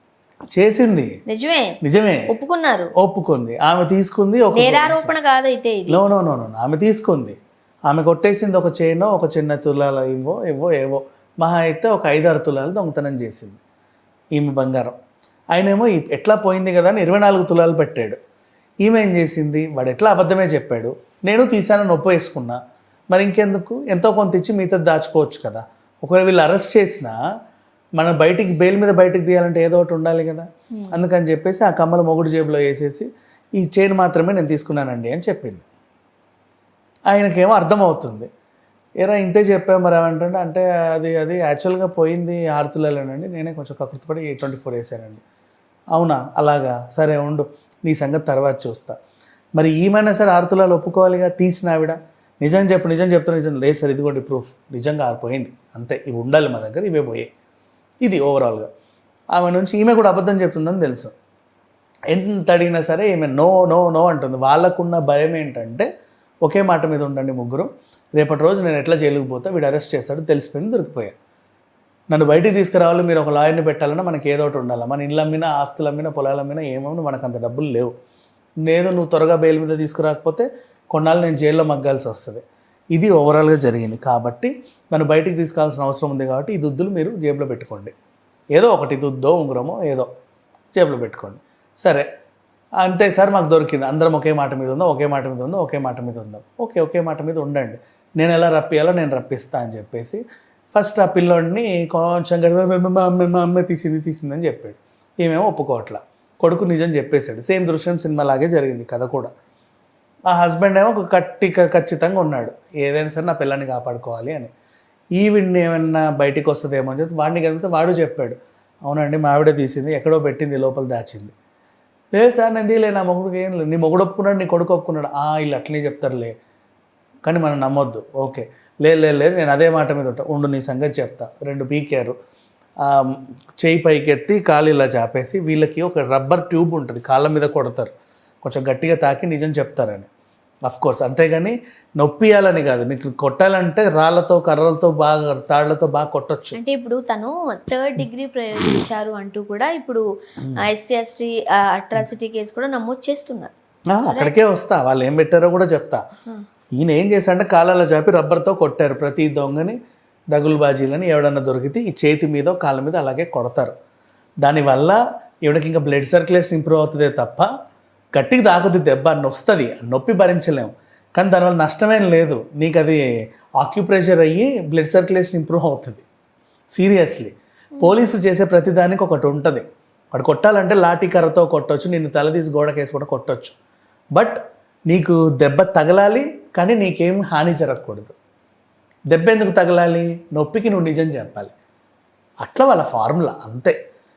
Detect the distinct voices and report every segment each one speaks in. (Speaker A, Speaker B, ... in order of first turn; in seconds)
Speaker A: 0.5-1.1, 1.8-2.2, 3.0-5.1, 5.9-7.3, 7.9-13.6, 14.3-15.0, 15.5-18.2, 18.8-22.6, 23.1-27.2, 28.0-33.1, 33.6-35.6, 37.1-38.3, 39.0-45.2, 45.9-49.0, 49.6-57.3, 58.0-58.7, 59.3-61.1, 62.1-65.9, 66.4-71.2, 72.1-77.9, 78.7-82.4, 82.9-87.9, 88.5-90.1, 90.7-92.0, 92.8-100.2, 100.7-109.3, 110.3-114.5, 115.2-121.3, 122.1-126.3, 127.2-132.2, 132.8-137.9, 138.4-140.1, 140.7-146.6, 153.9-156.0, 156.8-159.8, 160.3-163.7, 164.4-167.5, 168.2-173.1, 173.6-176.0, 176.7-183.6, 184.9-188.1, 189.1-191.5, 192.4-193.7
Speaker B: 1.3-1.8, 2.3-2.9, 4.5-6.0, 30.7-31.0, 146.5-150.0, 150.6-153.5, 154.1-154.4